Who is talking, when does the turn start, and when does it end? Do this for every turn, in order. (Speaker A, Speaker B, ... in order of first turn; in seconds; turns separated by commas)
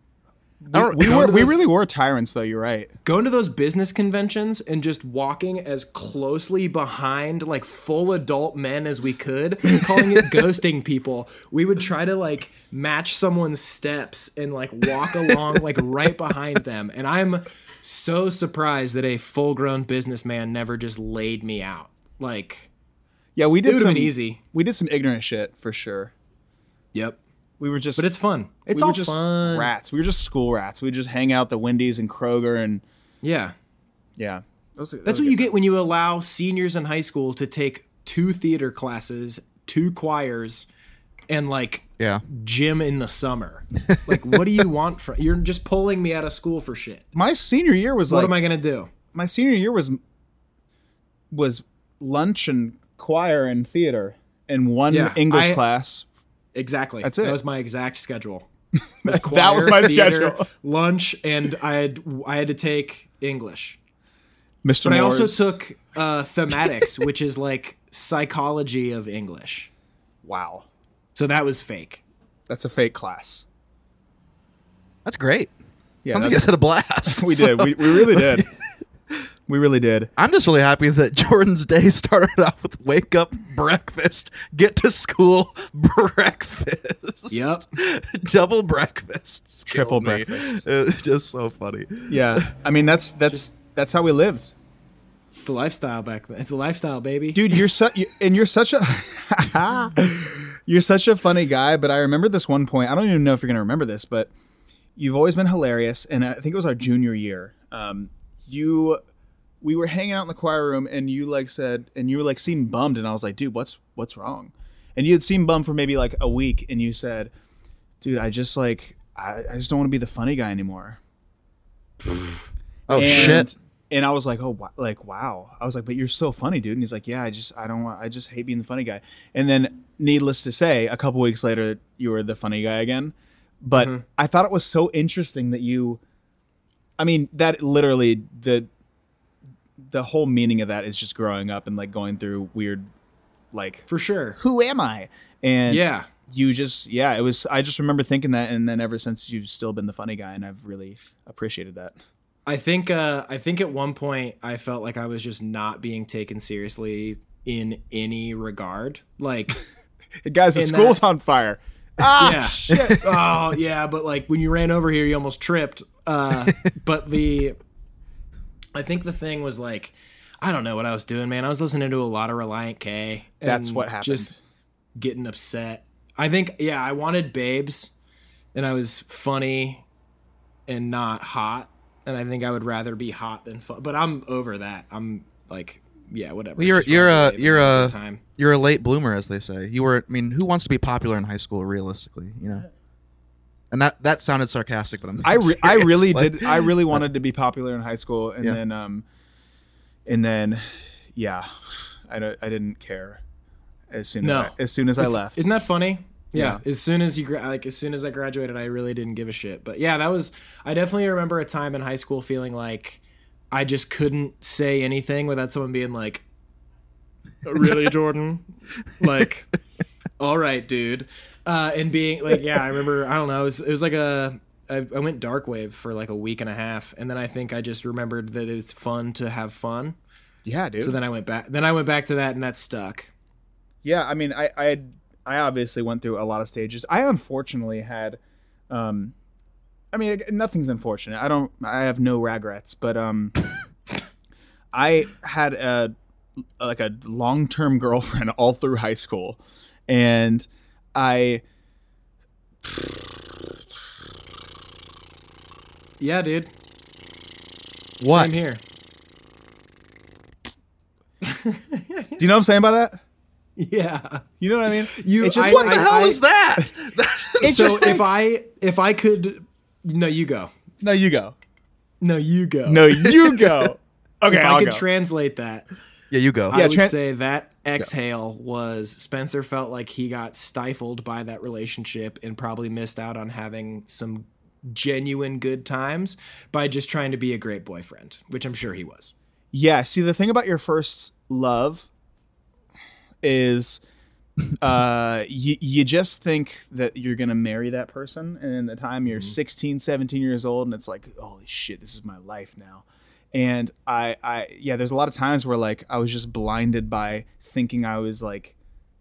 Speaker A: 0.6-2.9, Speaker B: 0.7-1.4, Speaker C: 0.9-1.5, Speaker C: 3.0-22.7, Speaker A: 23.4-26.1, Speaker C: 23.6-24.4, Speaker C: 26.9-27.2, Speaker A: 27.6-28.0, Speaker C: 28.0-29.7, Speaker A: 28.7-32.8, Speaker C: 33.2-33.5, Speaker A: 34.2-35.5, Speaker C: 35.0-40.7, Speaker C: 41.3-47.1, Speaker B: 43.9-44.3, Speaker A: 47.1-48.3, Speaker C: 48.1-48.9, Speaker A: 49.1-50.0, Speaker A: 51.3-56.0, Speaker C: 54.9-55.6, Speaker C: 56.5-58.5, Speaker A: 57.0-57.4, Speaker A: 59.0-60.5, Speaker C: 59.0-63.8, Speaker A: 64.6-65.5, Speaker C: 64.8-69.7, Speaker A: 70.2-70.7, Speaker C: 71.2-72.0, Speaker A: 72.5-73.5, Speaker B: 75.0-75.5, Speaker A: 76.0-76.5, Speaker B: 76.1-78.8, Speaker A: 77.0-78.5, Speaker A: 79.5-80.1, Speaker B: 80.2-92.4, Speaker C: 87.3-87.7, Speaker A: 89.7-90.6, Speaker A: 92.1-94.5, Speaker C: 95.4-97.5, Speaker A: 97.3-104.3, Speaker A: 105.0-109.0, Speaker A: 109.6-117.3, Speaker A: 118.0-121.0, Speaker B: 122.9-123.5, Speaker A: 122.9-136.0, Speaker C: 123.0-123.4, Speaker C: 133.8-134.0, Speaker A: 137.0-138.7, Speaker A: 139.9-142.9, Speaker A: 143.5-143.9, Speaker C: 143.9-144.4, Speaker A: 144.4-151.9, Speaker C: 145.7-146.1, Speaker C: 152.5-159.6, Speaker A: 160.2-163.0, Speaker C: 160.6-161.0, Speaker C: 162.2-167.6, Speaker C: 168.8-174.3, Speaker A: 173.4-174.4, Speaker C: 175.0-177.9, Speaker C: 178.6-179.8, Speaker C: 180.7-188.2, Speaker B: 186.6-192.7, Speaker B: 193.7-197.0, Speaker A: 195.2-199.1, Speaker A: 200.1-203.2, Speaker A: 203.9-205.4, Speaker C: 204.2-213.0, Speaker A: 206.3-206.6, Speaker C: 213.5-216.2, Speaker C: 217.5-218.5, Speaker C: 219.0-219.5, Speaker C: 220.2-230.0, Speaker A: 230.5-231.0, Speaker C: 230.8-233.1, Speaker A: 233.8-238.2, Speaker A: 238.7-239.1, Speaker A: 239.9-243.4, Speaker A: 244.7-245.9, Speaker A: 246.6-251.4, Speaker C: 256.0-256.5, Speaker B: 258.0-258.4, Speaker C: 258.1-258.6, Speaker C: 261.2-262.2, Speaker A: 262.2-263.0, Speaker C: 263.6-266.2, Speaker A: 264.4-266.0, Speaker B: 265.4-268.0, Speaker A: 267.4-268.1, Speaker C: 267.4-270.5, Speaker A: 270.8-271.4, Speaker C: 272.0-273.1, Speaker A: 272.7-274.8, Speaker C: 274.3-275.7, Speaker B: 276.1-276.6, Speaker C: 276.5-289.1, Speaker A: 276.5-277.0, Speaker A: 289.5-291.9, Speaker A: 293.2-293.8, Speaker A: 294.6-308.6